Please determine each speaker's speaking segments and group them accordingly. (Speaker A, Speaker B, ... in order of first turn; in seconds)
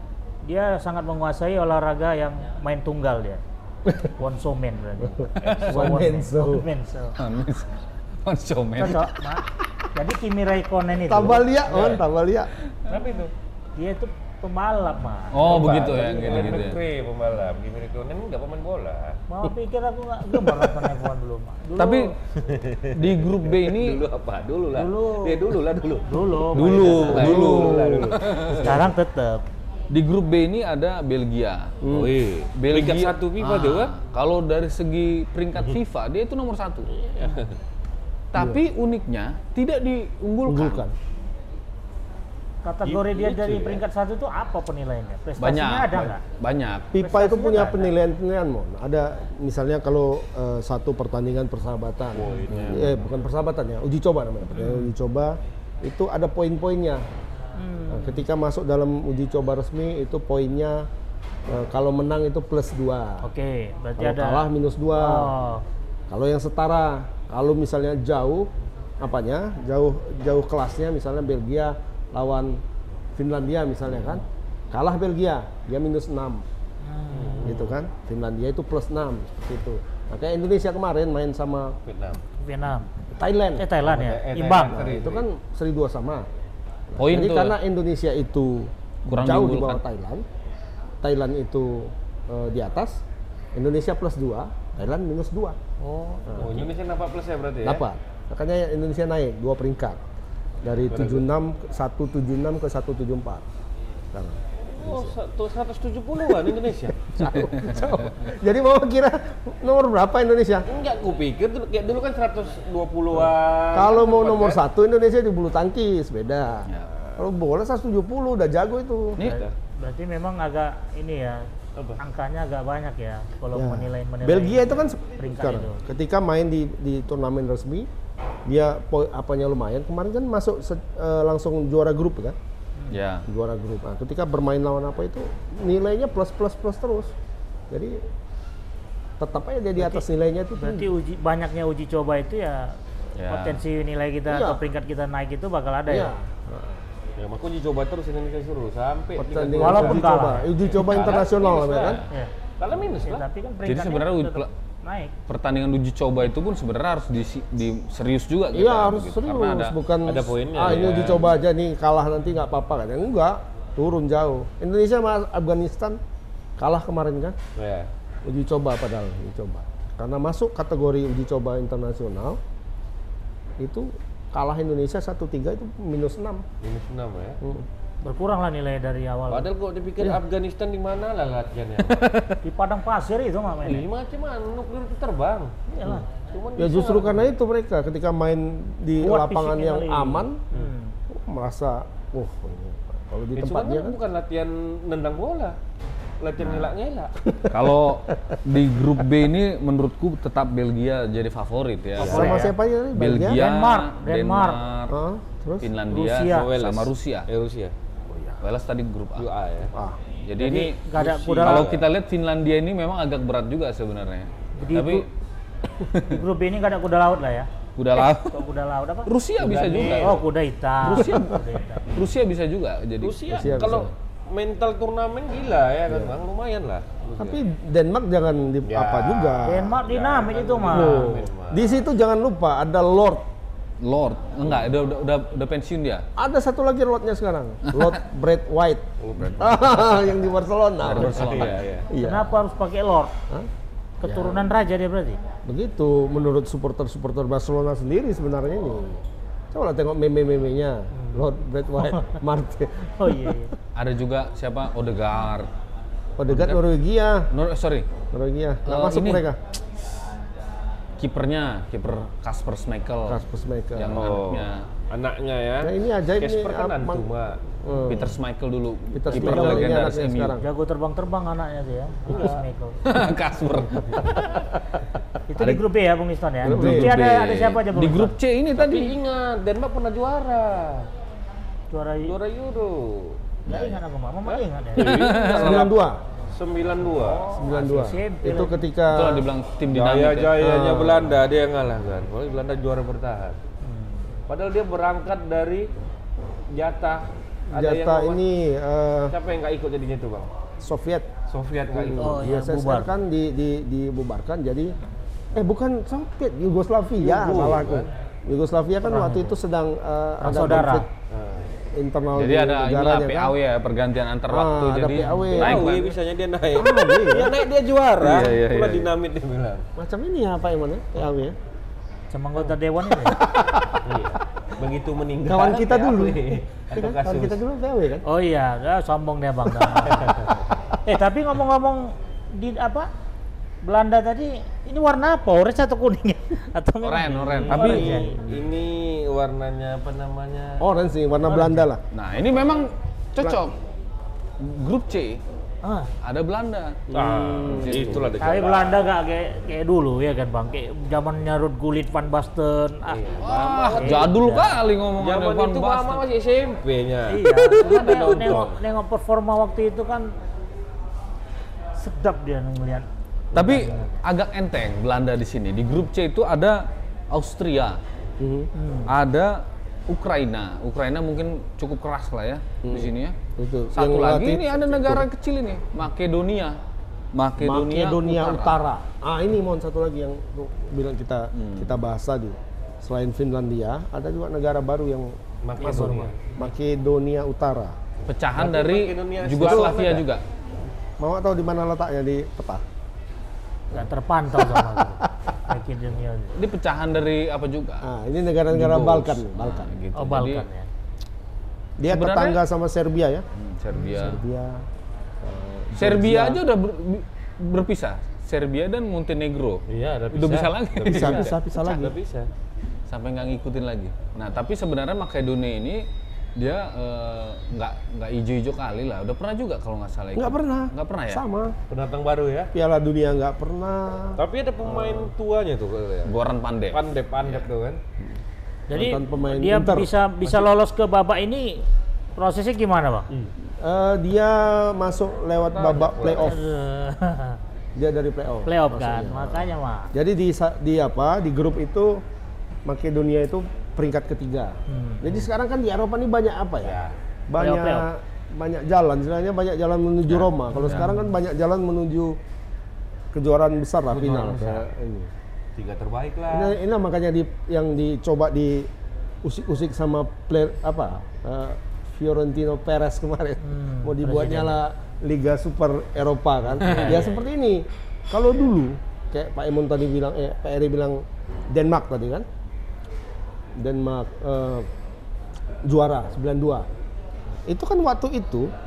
Speaker A: 0.4-3.4, 4.2-7.1, 8.8-9.4, 9.9-11.5, 13.8-15.8, 19.3-22.1, 24.7-25.5, 26.1-27.4, 28.6-29.4, 42.6-46.2, 47.0-47.9, 54.6-54.9, 57.6-58.2, 63.2-65.6, 76.8-77.6, 82.4-82.9, 83.6-84.8, 95.8-96.5, 119.3-125.8, 139.8-140.0, 140.6-146.1, 149.6-150.5, 153.0-155.1, 178.0-179.5, 182.4-183.9, 185.7-186.1, 189.0-190.9, 202.0-202.5, 203.3-204.6, 205.9-206.5, 210.4-211.7, 214.6-215.1, 216.1-219.1, 219.7-221.8, 229.4-231.2, 242.0-243.1, 244.0-245.2, 251.0-251.2, 253.0-253.5, 269.1-269.7, 270.4-272.8, 275.3-278.1, 281.7-282.2, 283.4-285.2, 286.9-288.6, 293.6-294.0, 302.0-302.9, 308.8-309.3, 310.2-310.9, 322.1-323.2, 328.1-330.2, 330.8-332.9, 333.6-338.2, 341.2-341.6, 345.6-345.9, 348.2-353.0, 353.8-354.6, 357.1-360.1, 361.8-362.9, 363.4-363.9, 368.5-368.9, 385.6-386.1, 393.7-396.3, 399.9-400.7, 428.7-433.1, 436.2-437.4, 438.4-439.9, 444.7-445.2, 447.4-447.9, 450.5-451.1, 463.4-464.6, 466.6-467.2
Speaker B: 3.9-4.1, 5.0-6.7, 11.1-12.5, 27.0-28.2, 31.8-32.2, 38.3-38.6, 40.4-40.9, 46.9-57.0, 57.9-60.9, 61.5-63.2, 64.0-65.3, 66.1-68.5, 69.0-72.6, 73.1-76.4, 77.4-81.8, 83.2-83.7, 84.7-86.3, 86.9-90.2, 91.0-93.0, 93.5-95.6, 96.3-96.7, 97.6-100.0, 100.6-103.4, 104.1-105.2, 107.0-110.7, 113.7-119.2, 123.5-127.9, 128.4-132.4, 133.3-137.1, 137.7-138.0, 139.2-140.9, 144.3-144.6, 145.9-146.8, 149.2-152.0, 158.5-166.0, 166.6-167.4, 168.2-172.4, 173.6-176.4, 177.4-177.7, 186.6-190.4, 191.1-194.0, 197.2-197.8, 202.0-203.4, 204.9-205.7, 209.7-210.0, 223.3-223.9, 225.9-226.2, 227.2-229.8, 230.7-233.2, 236.2-242.3, 244.0-244.5, 245.4-249.0, 249.5-253.4, 256.2-257.3, 258.1-259.4, 263.1-264.1, 265.6-267.1, 267.6-268.2, 268.9-270.5, 276.4-277.0, 285.2-286.0, 287.2-289.2, 290.4-291.2, 297.5-299.1, 300.6-301.1, 301.7-304.7, 305.3-310.9, 311.7-313.3, 314.3-315.8, 316.5-317.4, 319.8-321.4, 323.0-323.8, 325.2-328.0, 337.6-338.0, 340.6-341.8, 343.2-343.4, 346.9-348.1, 363.4-363.7, 368.2-368.5, 372.6-375.1, 377.4-387.8, 389.4-389.9, 391.0-392.6, 394.4-395.1, 397.8-399.7, 401.8-403.2, 403.8-404.6, 405.2-406.4, 410.8-411.9, 420.1-421.6, 422.5-425.1, 428.7-429.9, 433.6-436.4, 437.8-442.0, 442.6-452.2, 453.1-455.1, 456.3-458.7, 459.2-472.3, 473.6-474.7, 475.6-476.7, 477.5-478.5
Speaker C: 5.4-5.8, 11.7-12.0, 12.9-13.3, 15.4-19.2, 22.4-28.8, 31.9-33.9, 37.1-37.5, 42.8-43.8, 52.1-53.0, 77.1-77.8, 81.8-82.2, 83.8-85.2, 96.4-97.8, 100.9-101.2, 104.6-107.0, 110.7-114.6, 119.2-119.5, 147.2-152.0, 152.6-153.2, 160.1-161.3, 167.6-167.9, 176.6-177.4, 179.3-182.4, 183.6-185.5, 186.3-187.3, 193.3-195.6, 196.2-197.1, 202.0-202.3, 206.2-208.3, 209.2-209.7, 210.9-211.8, 219.4-220.2, 223.0-227.4, 228.6-231.8, 239.0-239.9, 240.9-241.9, 263.9-267.4, 272.1-272.4, 278.6-280.9, 282.1-283.7, 284.2-287.2, 289.7-293.4, 294.3-295.7, 296.5-298.2, 299.1-300.3, 301.3-302.3, 307.0-307.9, 311.1-311.5, 315.3-319.6, 323.8-327.4, 329.9-330.3, 337.4-340.6, 346.9-348.9, 352.9-354.1, 355.0-358.6, 385.4-386.1, 388.4-390.1, 409.7-412.3, 421.7-422.5, 424.2-426.1, 426.7-427.8, 435.5-436.4, 446.6-446.9, 453.9-454.6, 455.6-456.5
Speaker D: 7.2-9.1, 15.3-16.8, 21.8-22.1, 22.9-24.0, 26.5-28.5, 29.9-31.8, 32.5-36.9, 38.3-40.8, 45.4-46.9, 87.0-87.6, 89.1-89.8, 119.2-119.5, 132.9-133.2, 143.2-143.6, 153.6-154.5, 155.3-159.8, 160.6-161.2, 196.4-196.7, 197.5-204.9, 205.6-207.3, 208.4-209.3, 210.2-210.8, 211.4-215.1, 215.9-216.2, 217.8-218.3, 219.1-220.2, 220.8-223.8, 233.8-236.0, 237.7-237.9, 240.8-241.7, 253.7-255.5, 256.3-256.6, 257.3-257.9, 258.6-259.2, 261.0-263.2, 263.8-264.6, 267.9-270.4, 272.8-274.4, 275.4-275.6, 276.4-278.9, 284.8-285.7, 288.9-290.4, 312.1-315.9, 318.0-318.9, 336.8-338.0, 341.9-343.5, 344.4-345.2, 346.0-346.8, 347.5-348.1, 353.2-356.0, 357.7-358.1, 363.3-367.8, 368.9-373.1, 373.7-376.6, 377.1-378.6, 381.3-381.7, 388.1-390.2, 396.4-397.9, 398.5-400.4, 401.9-402.4, 403.3-404.2, 405.7-411.3, 412.9-421.2, 426.1-427.4, 450.1-450.9, 466.6-467.0